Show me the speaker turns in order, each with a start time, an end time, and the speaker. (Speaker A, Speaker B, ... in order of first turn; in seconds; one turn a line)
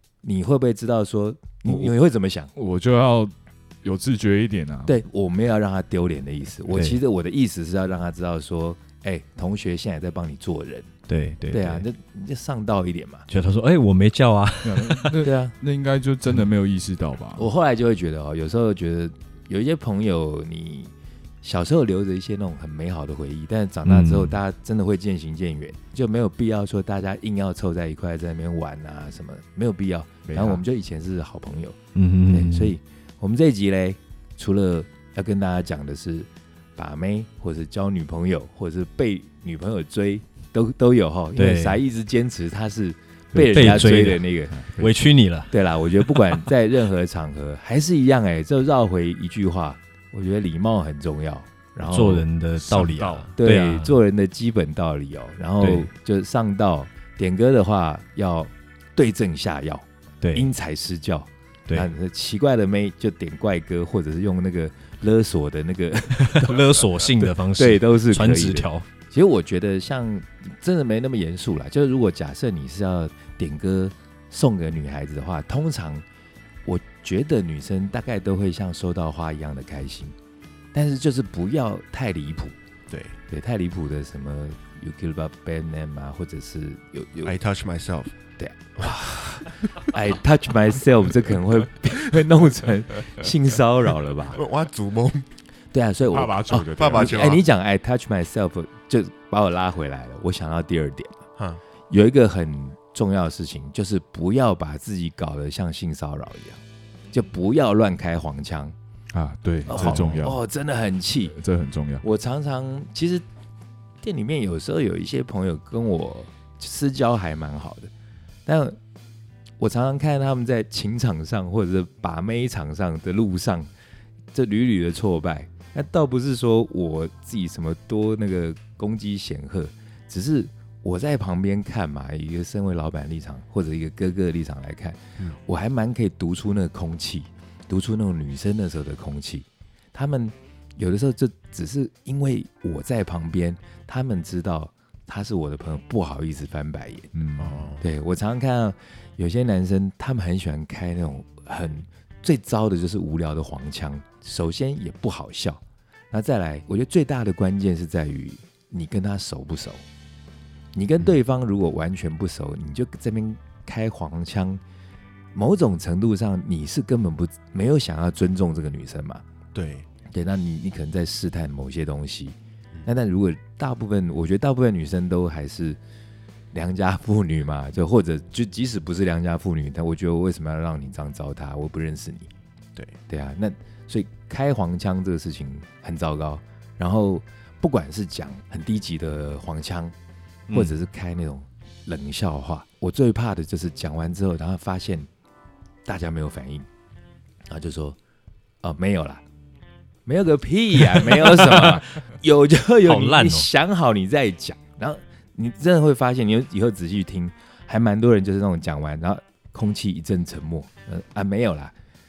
Speaker A: 0.2-2.5
Speaker B: 2.5-5.0
Speaker A: 4.9-10.9
Speaker C: 6.7-7.0
Speaker C: 11.1-11.8
Speaker A: 11.5-13.3
Speaker C: 13.3-15.2
Speaker B: 14.6-17.5
Speaker A: 15.2-15.6
Speaker A: 17.4-44.6
Speaker C: 23.9-24.4
Speaker B: 30.3-30.6
Speaker C: 31.9-32.8
Speaker C: 41.4-41.8
Speaker B: 43.3-44.0
Speaker C: 43.4-45.5
Speaker B: 44.5-44.9
Speaker A: 45.5-52.3
Speaker C: 46.1-46.4
Speaker C: 51.8-53.9
Speaker B: 52.6-53.3
Speaker A: 53.4-76.0
Speaker C: 55.6-55.9
Speaker C: 60.2-60.5
Speaker C: 66.2-68.8
Speaker A: 76.7-80.1
Speaker A: 80.7-82.6
Speaker D: 82.9-83.2
Speaker A: 83.3-87.3
Speaker D: 87.2-88.2
Speaker A: 88.4-94.4
Speaker D: 88.8-89.5
Speaker D: 94.3-95.3
Speaker A: 95.7-101.2
Speaker B: 96.1-97.4
Speaker D: 96.7-97.4
Speaker A: 101.9-108.8
Speaker B: 109.1-110.4
Speaker A: 109.7-111.4
Speaker B: 111.3-112.0
Speaker A: 112.0-113.2
Speaker A: 114.0-117.9
Speaker A: 118.5-118.8
Speaker A: 119.6-123.7
Speaker A: 124.3-147.1
Speaker B: 147.1-147.6
Speaker D: 147.4-147.8
Speaker A: 147.8-159.8
Speaker A: 160.8-164.6
Speaker A: 165.3-169.2
Speaker D: 169.5-169.9
Speaker A: 170.1-175.8
Speaker A: 176.5-182.3
Speaker A: 183.1-189.9
Speaker C: 190.5-190.7
Speaker A: 190.5-195.1
Speaker A: 195.8-196.7
Speaker A: 197.5-198.0
Speaker A: 198.6-199.2
Speaker A: 200.1-211.7
Speaker C: 202.8-203.5